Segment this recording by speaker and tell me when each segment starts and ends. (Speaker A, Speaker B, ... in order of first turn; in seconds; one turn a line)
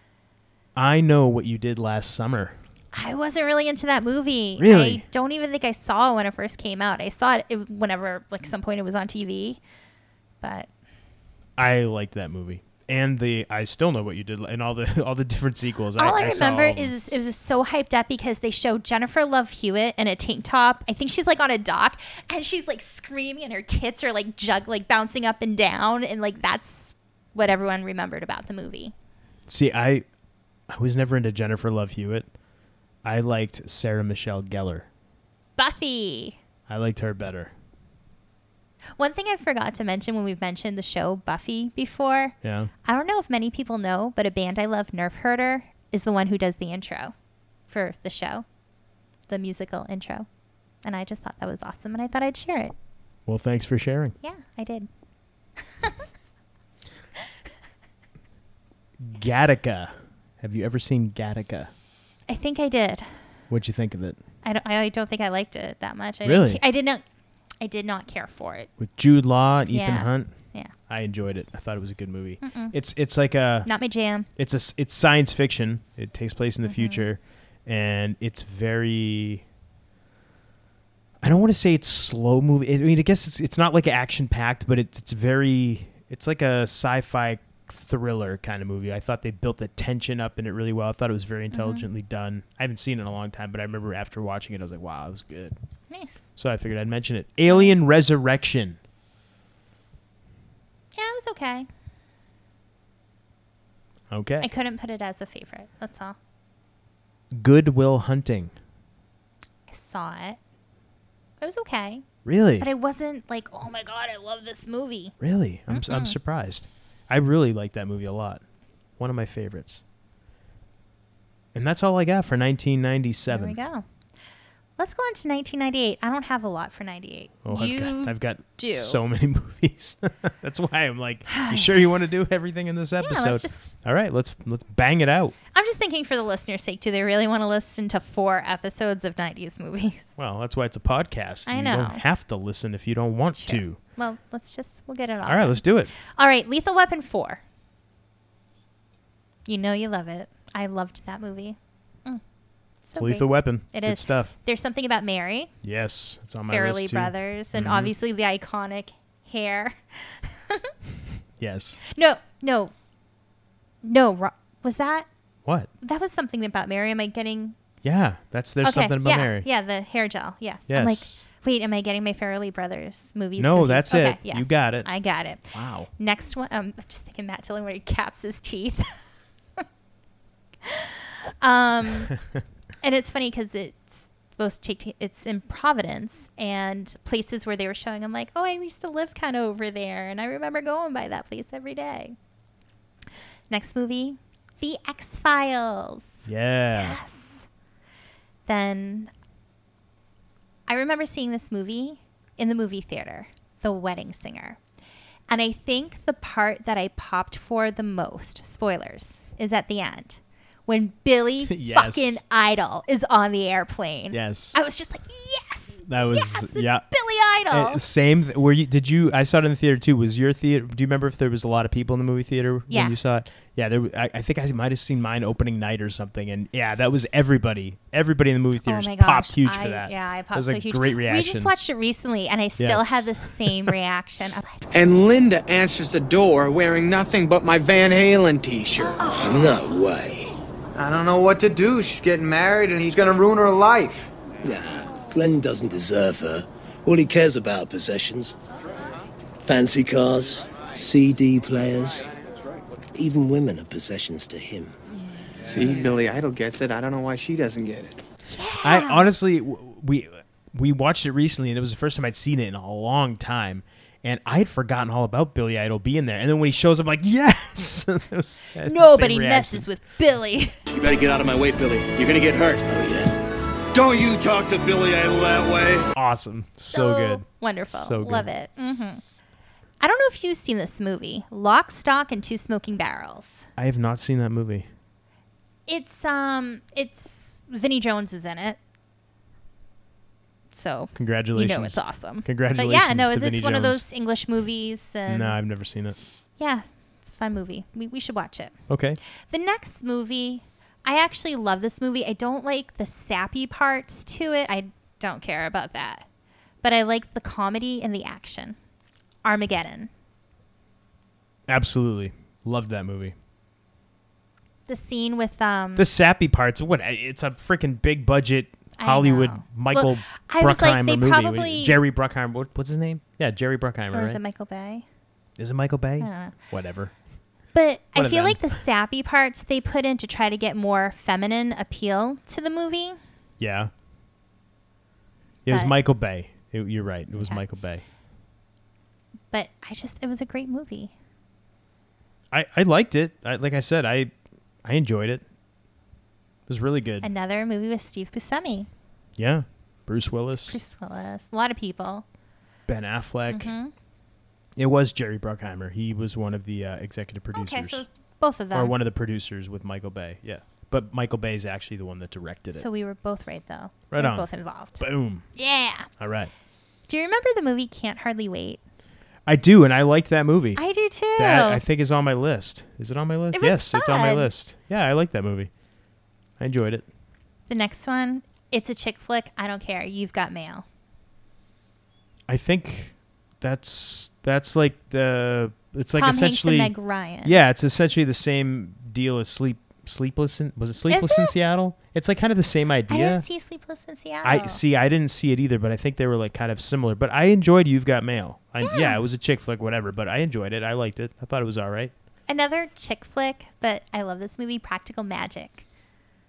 Speaker A: 0.8-2.6
Speaker B: 2.9-9.6
Speaker A: 4.6-5.0
Speaker B: 10.4-10.7
Speaker A: 11.6-16.9
Speaker B: 16.0-28.9
Speaker A: 29.5-30.1
Speaker A: 30.7-32.3
Speaker A: 33.0-34.9
Speaker B: 35.6-36.4
Speaker A: 36.7-37.5
Speaker B: 39.0-47.1
Speaker A: 42.4-42.7
Speaker B: 47.7-48.5
Speaker B: 49.3-50.3
Speaker B: 50.8-52.8
Speaker A: 53.3-54.1
Speaker B: 54.2-54.9
Speaker A: 59.0-61.7
Speaker B: 62.3-63.1
Speaker A: 63.5-64.2
Speaker B: 64.4-67.0
Speaker A: 66.2-66.6
Speaker B: 67.6-68.7
Speaker A: 68.8-70.3
Speaker B: 69.7-70.7
Speaker A: 70.9-73.7
Speaker B: 72.4-72.8
Speaker B: 73.7-74.3
Speaker A: 74.4-79.4
Speaker B: 76.6-77.1
Speaker A: 81.2-95.5
Speaker B: 91.5-91.9
Speaker B: 95.9-96.2
Speaker A: 96.4-98.8
Speaker B: 97.5-97.7
Speaker B: 101.0-101.7
Speaker A: 104.1-104.5
Speaker B: 104.4-106.2
Speaker A: 107.3-108.5
Speaker B: 109.7-110.4
Speaker B: 111.4-112.1
Speaker A: 112.2-112.7
Speaker B: 112.6-115.2
Speaker A: 115.2-118.4
Speaker B: 115.7-116.2
Speaker A: 119.0-119.8
Speaker A: 121.5-123.6
Speaker B: 123.3-123.9
Speaker B: 124.8-129.0
Speaker A: 127.4-135.3
Speaker B: 131.3-131.8
Speaker B: 133.0-133.7
Speaker B: 135.5-140.2
Speaker A: 140.2-143.8
Speaker B: 141.5-142.0
Speaker B: 143.3-147.4
Speaker A: 145.2-145.9
Speaker B: 149.5-152.2
Speaker B: 152.9-155.5
Speaker A: 153.0-154.3
Speaker A: 155.6-157.9
Speaker B: 156.5-160.7
Speaker A: 161.4-161.8
Speaker B: 161.9-162.7
Speaker B: 163.8-165.1
Speaker B: 165.8-167.6
Speaker A: 167.8-169.5
Speaker B: 168.6-178.9
Speaker A: 170.7-171.2
Speaker A: 173.4-174.9
Speaker A: 175.5-175.9
Speaker B: 180.6-182.1
Speaker B: 182.8-192.2
Speaker B: 193.5-197.5
Speaker A: 196.3-197.0
Speaker B: 198.5-199.1
Speaker B: 200.7-204.6
Speaker B: 205.3-217.8
Speaker A: 211.5-212.2
Speaker A: 214.1-214.6
Speaker A: 215.8-216.8
Speaker A: 217.5-231.5
Speaker B: 222.7-223.0
Speaker B: 228.6-234.6
Speaker A: 232.6-233.7
Speaker C: 234.7-239.1
Speaker D: 239.1-240.4
Speaker C: 240.8-244.1
Speaker D: 244.4-248.4
Speaker D: 249.4-252.1
Speaker D: 252.9-254.7
Speaker C: 255.5-258.0
Speaker B: 258.3-259.1
Speaker A: 258.6-269.7
Speaker B: 268.6-270.6
Speaker E: 270.7-272.6
Speaker D: 272.7-273.1
Speaker E: 273.7-275.9
Speaker A: 275.9-278.3
Speaker B: 276.7-279.0
Speaker B: 279.8-283.5
Speaker A: 283.6-284.7
Speaker B: 285.7-288.6
Speaker B: 290.5-295.4
Speaker A: 290.9-293.8
Speaker A: 295.1-296.0
Speaker B: 296.4-298.6
Speaker A: 298.7-299.0
Speaker B: 299.2-306.1
Speaker B: 306.6-308.6
Speaker B: 309.2-309.9
Speaker A: 311.5-313.1
Speaker B: 314.7-315.9
Speaker A: 315.8-324.2
Speaker B: 318.8-321.8
Speaker B: 323.9-324.9
Speaker A: 325.4-326.9
Speaker B: 326.0-326.4
Speaker B: 327.5-333.0
Speaker A: 327.9-328.6
Speaker A: 333.4-333.7
Speaker A: 335.4-337.8
Speaker B: 335.5-335.7
Speaker B: 339.3-340.9
Speaker A: 342.3-344.1
Speaker A: 344.6-345.2
Speaker A: 346.5-347.1
Speaker B: 347.0-348.7
Speaker A: 349.2-350.6
Speaker B: 350.5-352.1
Speaker A: 352.7-353.5
Speaker B: 353.3-353.7
Speaker A: 354.6-357.8
Speaker B: 357.3-358.8
Speaker A: 358.5-362.7
Speaker B: 362.5-364.8
Speaker A: 363.9-365.2
Speaker B: 365.4-365.9
Speaker A: 366.0-366.3
Speaker B: 366.9-368.6
Speaker A: 369.3-370.6
Speaker B: 370.6-371.6
Speaker A: 371.2-375.5
Speaker B: 373.3-374.3
Speaker A: 376.4-376.9
Speaker B: 377.5-380.6
Speaker A: 382.3-393.2
Speaker B: 385.9-387.4
Speaker B: 390.9-391.4
Speaker B: 392.9-394.6
Speaker A: 394.2-401.9
Speaker B: 398.6-399.0
Speaker B: 402.3-405.6